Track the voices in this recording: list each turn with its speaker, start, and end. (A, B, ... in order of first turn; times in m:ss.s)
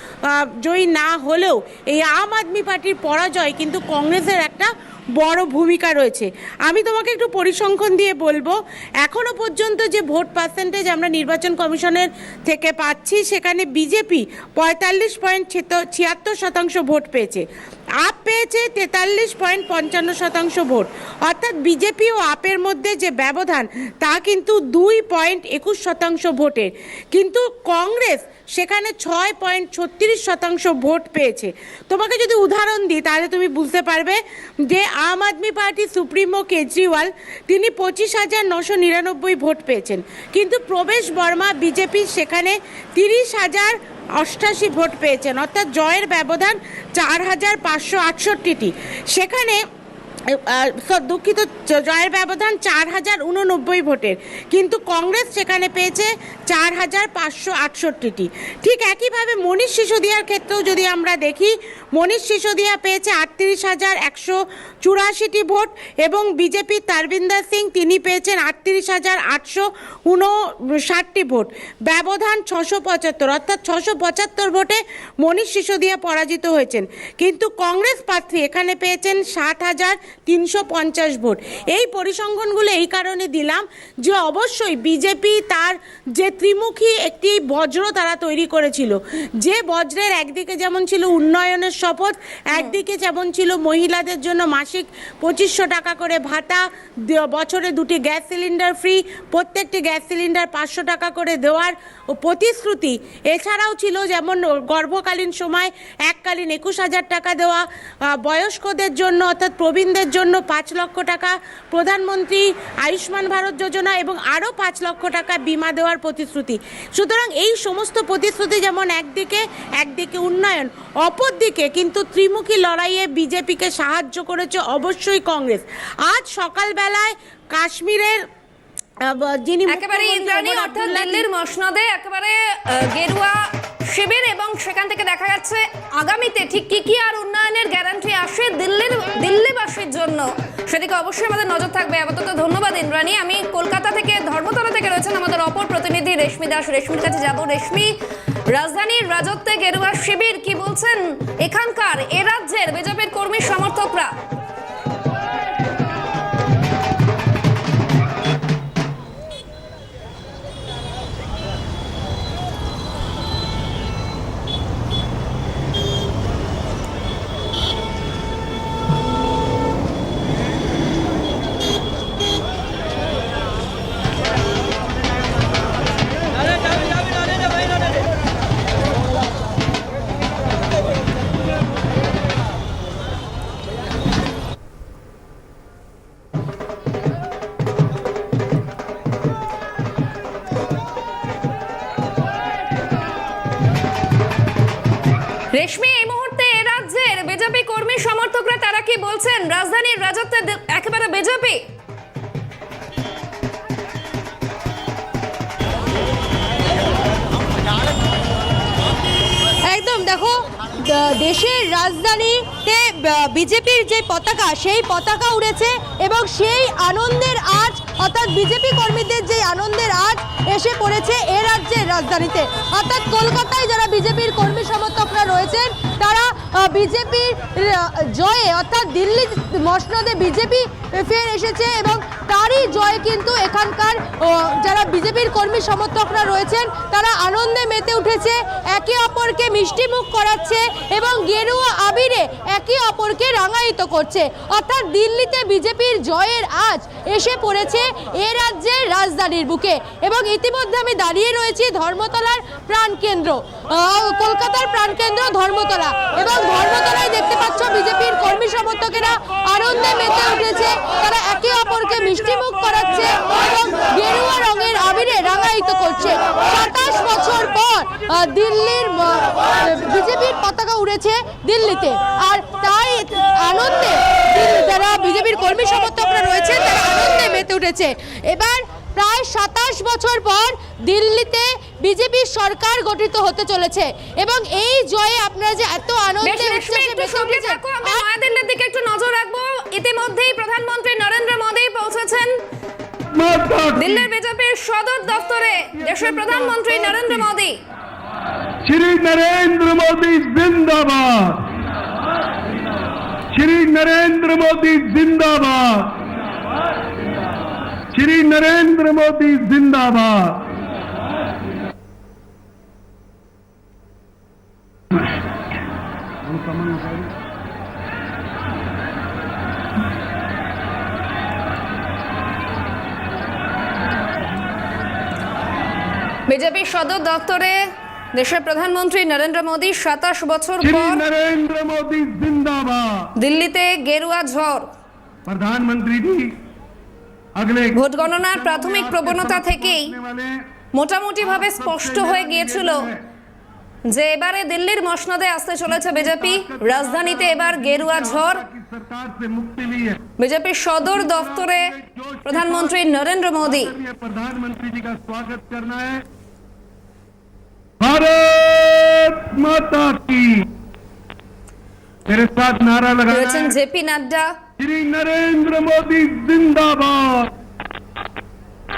0:00.4-0:17.4 A
0:18.0-0:49.6 A
0:50.3-1:47.6 A
1:48.1-2:08.2 A
2:09.1-2:11.2 A
2:09.7-2:27.9 B
2:28.5-2:34.1 B
3:15.5-3:21.6 B
3:29.7-4:48.0 C
4:46.2-4:52.4 B
4:53.1-4:54.0 D
4:53.8-4:57.6 B
4:55.6-4:57.2 D
4:58.6-5:01.0 D
5:03.4-5:05.9 D
5:07.9-5:10.1 D
5:26.3-5:27.6 B
5:28.1-5:31.0 B
5:30.6-5:32.9 D
5:33.2-5:34.7 B
5:35.3-5:36.3 D
5:37.4-5:40.3 D
5:37.7-5:39.9 B
5:40.7-5:42.9 B
5:41.3-5:43.0 D
5:43.9-5:48.4 B
5:45.7-5:50.0 D
5:50.2-5:53.7 B
5:50.9-5:52.8 D
5:53.4-5:56.0 D
5:57.8-6:00.2 D
6:02.1-6:03.5 D
6:03.1-6:04.3 B
6:04.6-6:07.0 D